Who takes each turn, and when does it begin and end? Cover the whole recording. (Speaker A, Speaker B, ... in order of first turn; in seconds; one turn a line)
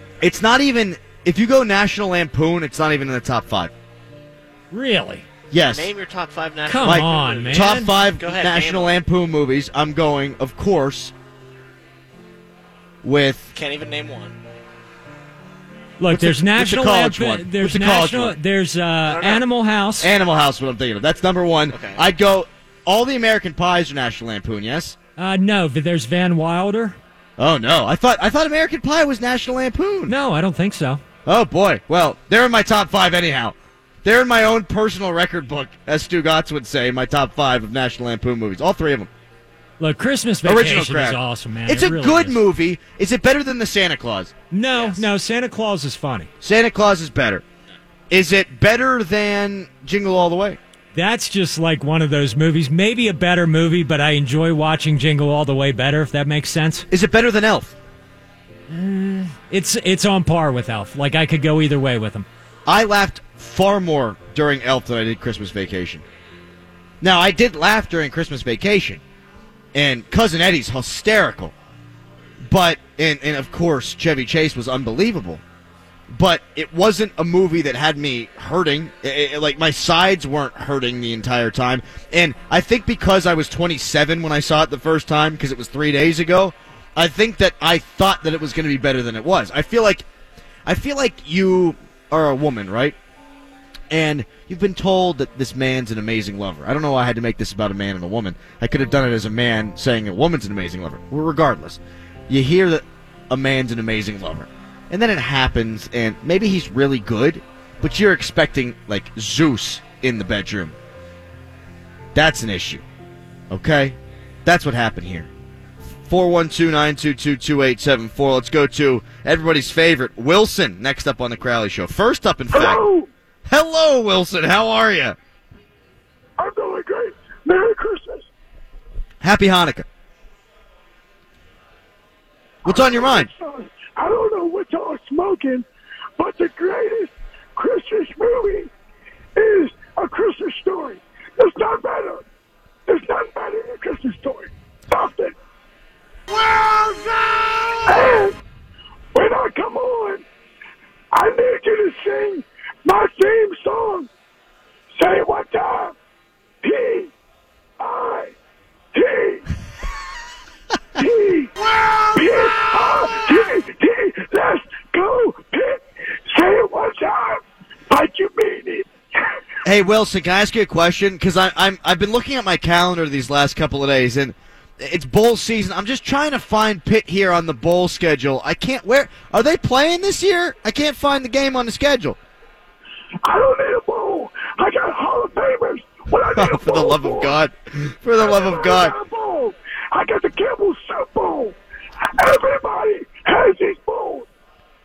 Speaker A: 0.2-3.7
Speaker B: 4.7-5.3
Speaker A: 5.5-5.9
Speaker C: 5.7-9.0
Speaker B: 6.6-7.9
Speaker A: 6.8-11.1
Speaker A: 13.0-13.5
Speaker C: 13.5-14.4
Speaker B: 16.0-20.1
Speaker A: 16.1-18.4
Speaker C: 19.0-19.4
Speaker A: 20.0-25.0
Speaker C: 21.7-22.0
Speaker B: 25.2-27.0
Speaker A: 27.4-30.1
Speaker B: 30.1-31.0
Speaker A: 31.2-39.1
Speaker B: 39.8-42.4
Speaker A: 40.4-44.3
Speaker B: 44.5-46.3
Speaker C: 44.7-45.0
Speaker A: 46.4-47.4
Speaker A: 48.1-50.6
Speaker B: 50.9-56.9
Speaker A: 56.9-57.8
Speaker B: 58.7-62.3
Speaker A: 62.7-66.0
Speaker A: 67.0-69.0
Speaker A: 69.7-71.5
Speaker A: 72.5-75.4
Speaker A: 76.1-90.0
Speaker A: 90.7-93.0
Speaker A: 93.9-110.8
Speaker A: 112.1-112.8
Speaker A: 113.5-115.3
Speaker A: 116.1-122.8
Speaker D: 122.5-123.1
Speaker A: 123.5-125.2
Speaker D: 126.4-128.3
Speaker A: 129.2-129.9
Speaker D: 132.6-135.7
Speaker A: 132.6-133.3
Speaker D: 136.2-138.7
Speaker D: 139.4-142.2
Speaker D: 142.9-145.3
Speaker D: 147.8-148.3
Speaker D: 149.1-150.2
Speaker D: 151.1-154.1
Speaker D: 154.9-155.9
Speaker D: 156.6-157.1
Speaker D: 157.8-158.3
Speaker D: 158.9-159.5
Speaker D: 161.0-169.3
Speaker A: 169.6-182.2
Speaker D: 183.2-187.3
Speaker A: 186.3-188.9
Speaker D: 188.2-191.6
Speaker D: 192.2-194.3